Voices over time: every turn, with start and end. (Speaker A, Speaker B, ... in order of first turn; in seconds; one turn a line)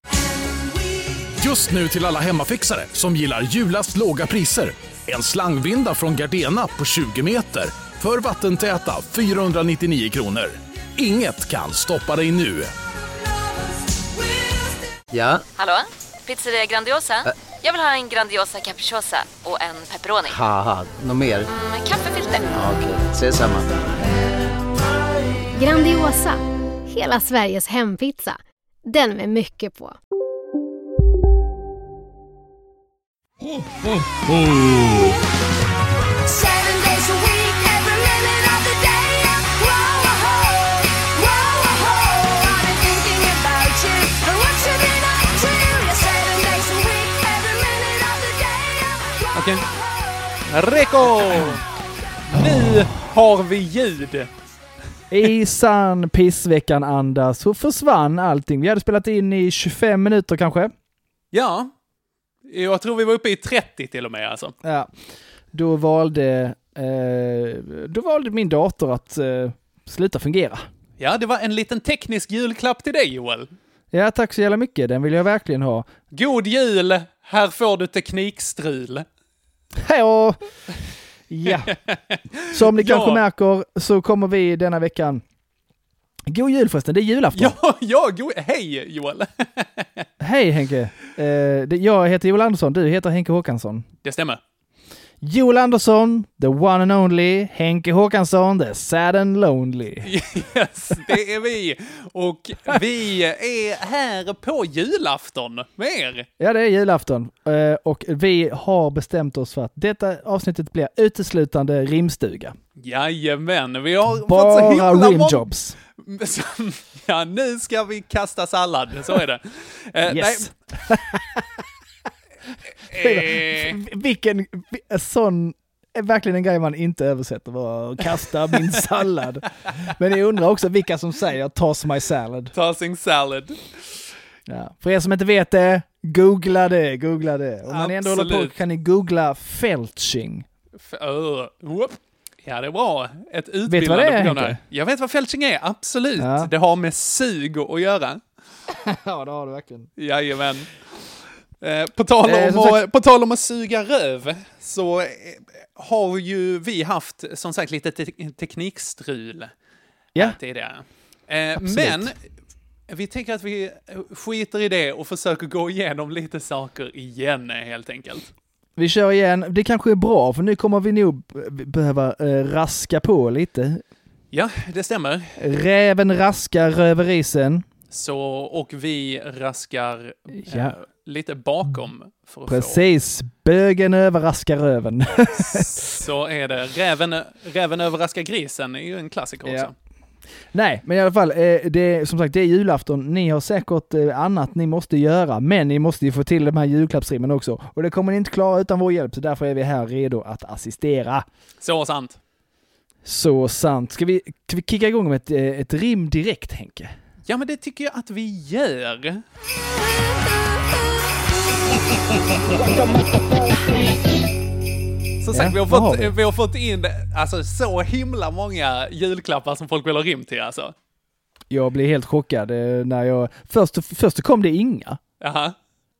Speaker A: 1.4-12.7
Speaker B: 15.1-15.4
Speaker C: 15.6-20.3
Speaker B: 20.3-21.5
Speaker C: 21.5-22.5
Speaker B: 22.5-23.7
Speaker D: 25.5-30.0
Speaker E: 33.5-35.2
Speaker E: 36.2-49.2
Speaker F: 49.3-49.6
Speaker F: 50.5-51.6
Speaker F: 52.3-54.3
Speaker G: 55.1-60.7
Speaker F: 61.3-61.7
Speaker F: 62.5-64.5
Speaker G: 64.6-64.9
Speaker G: 65.5-70.7
Speaker F: 71.0-73.5
Speaker G: 73.9-75.9
Speaker F: 76.1-79.0
Speaker G: 79.8-80.4
Speaker G: 81.3-81.7
Speaker F: 81.5-83.2
Speaker G: 82.5-85.2
Speaker G: 86.3-87.5
Speaker F: 87.3-90.0
Speaker G: 90.2-93.9
Speaker F: 94.0-94.4
Speaker G: 95.2-100.1
Speaker F: 100.0-106.3
Speaker G: 106.4-112.5
Speaker F: 112.8-115.5
Speaker G: 114.1-115.8
Speaker F: 116.0-120.5
Speaker G: 120.1-121.5
Speaker F: 122.8-123.8
Speaker G: 122.9-132.5
Speaker F: 132.5-134.0
Speaker G: 134.5-140.5
Speaker F: 137.7-138.5
Speaker F: 140.8-148.2
Speaker G: 143.7-144.6
Speaker G: 146.2-146.5
Speaker G: 148.7-149.9
Speaker F: 150.0-150.7
Speaker F: 151.6-159.5
Speaker G: 152.2-152.8
Speaker F: 160.2-162.1
Speaker G: 161.6-162.1
Speaker F: 162.9-168.3
Speaker G: 168.8-173.8
Speaker F: 174.3-175.3
Speaker G: 175.4-177.7
Speaker F: 177.9-182.8
Speaker G: 180.4-180.8
Speaker G: 182.5-185.7
Speaker F: 185.3-189.7
Speaker G: 189.4-189.7
Speaker G: 190.5-201.2
Speaker F: 201.6-202.2
Speaker G: 203.0-206.9
Speaker F: 207.2-209.2
Speaker F: 215.2-220.7
Speaker G: 215.3-216.1
Speaker G: 221.5-225.0
Speaker F: 225.2-225.5